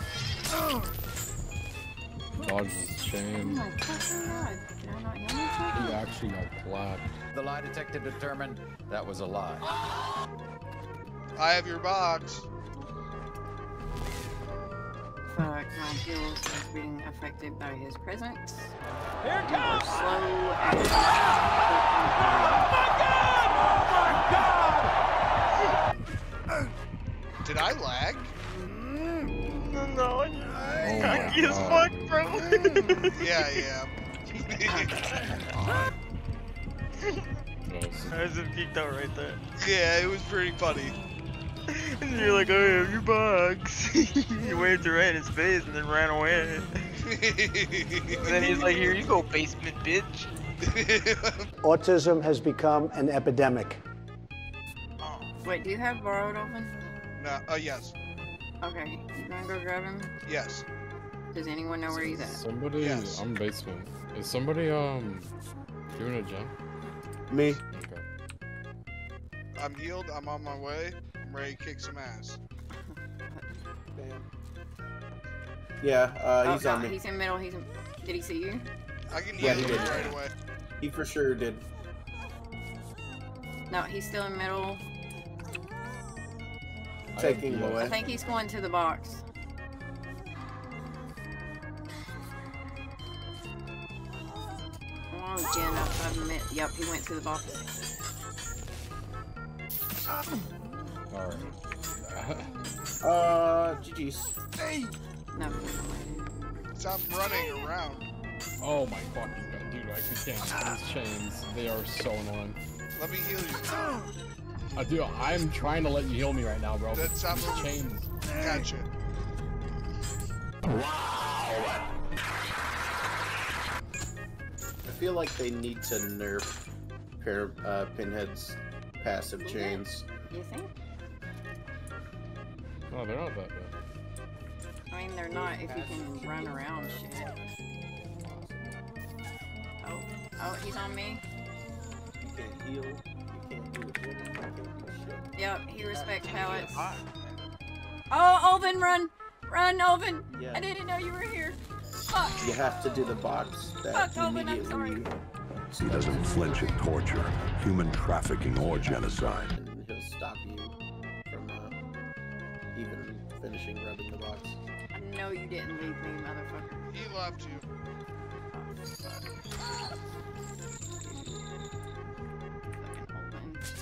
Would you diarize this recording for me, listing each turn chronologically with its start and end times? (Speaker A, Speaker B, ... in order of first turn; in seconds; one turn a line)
Speaker A: 2.4-3.7
Speaker B: 3.4-6.2
Speaker A: 5.8-7.1
Speaker C: 7.3-9.7
Speaker D: 11.4-12.5
Speaker B: 15.3-18.8
Speaker C: 19.2-20.1
Speaker B: 19.5-22.7
Speaker D: 27.4-28.3
Speaker E: 29.4-33.2
Speaker A: 30.8-32.4
Speaker D: 33.2-33.9
Speaker D: 34.4-34.9
Speaker A: 37.7-38.2
Speaker E: 38.1-39.4
Speaker D: 39.6-41.0
Speaker E: 42.0-46.7
Speaker D: 47.0-49.1
Speaker E: 48.2-50.3
Speaker D: 50.6-51.5
Speaker F: 51.6-53.8
Speaker E: 55.0-55.3
Speaker B: 55.4-56.7
Speaker D: 57.2-57.9
Speaker B: 58.6-60.1
Speaker D: 60.2-60.7
Speaker B: 61.3-62.4
Speaker A: 61.9-65.3
Speaker D: 62.8-63.2
Speaker A: 65.9-66.5
Speaker G: 67.3-67.6
Speaker A: 67.7-68.0
Speaker D: 69.6-72.4
Speaker B: 72.7-73.7
Speaker G: 73.9-74.3
Speaker G: 75.8-77.0
Speaker B: 76.4-78.7
Speaker D: 79.1-80.3
Speaker G: 79.3-80.2
Speaker A: 79.4-80.2
Speaker G: 80.8-81.7
Speaker B: 83.7-84.8
Speaker A: 87.1-88.4
Speaker G: 87.2-87.9
Speaker B: 87.7-89.2
Speaker B: 95.1-97.7
Speaker A: 101.1-102.5
Speaker G: 103.0-104.4
Speaker B: 105.3-106.3
Speaker D: 106.7-108.0
Speaker A: 108.6-112.6
Speaker D: 112.9-114.1
Speaker A: 114.8-118.1
Speaker D: 116.9-117.7
Speaker D: 118.4-118.9
Speaker G: 124.9-126.6
Speaker G: 127.2-130.1
Speaker B: 129.4-130.7
Speaker A: 132.9-133.7
Speaker B: 134.9-137.3
Speaker G: 135.3-137.3
Speaker A: 137.6-138.8
Speaker B: 139.8-141.2
Speaker G: 142.2-147.0
Speaker B: 145.4-146.8
Speaker E: 146.2-147.3
Speaker B: 148.1-151.6
Speaker G: 150.3-150.7
Speaker B: 152.1-152.4
Speaker G: 152.4-155.1
Speaker B: 153.9-155.1
Speaker H: 155.7-159.6
Speaker G: 155.7-157.1
Speaker G: 158.5-160.8
Speaker G: 161.3-161.8
Speaker G: 162.7-164.6
Speaker B: 164.9-166.8
Speaker D: 166.9-167.7
Speaker B: 168.5-169.3
Speaker B: 171.0-171.4
Speaker B: 172.7-173.6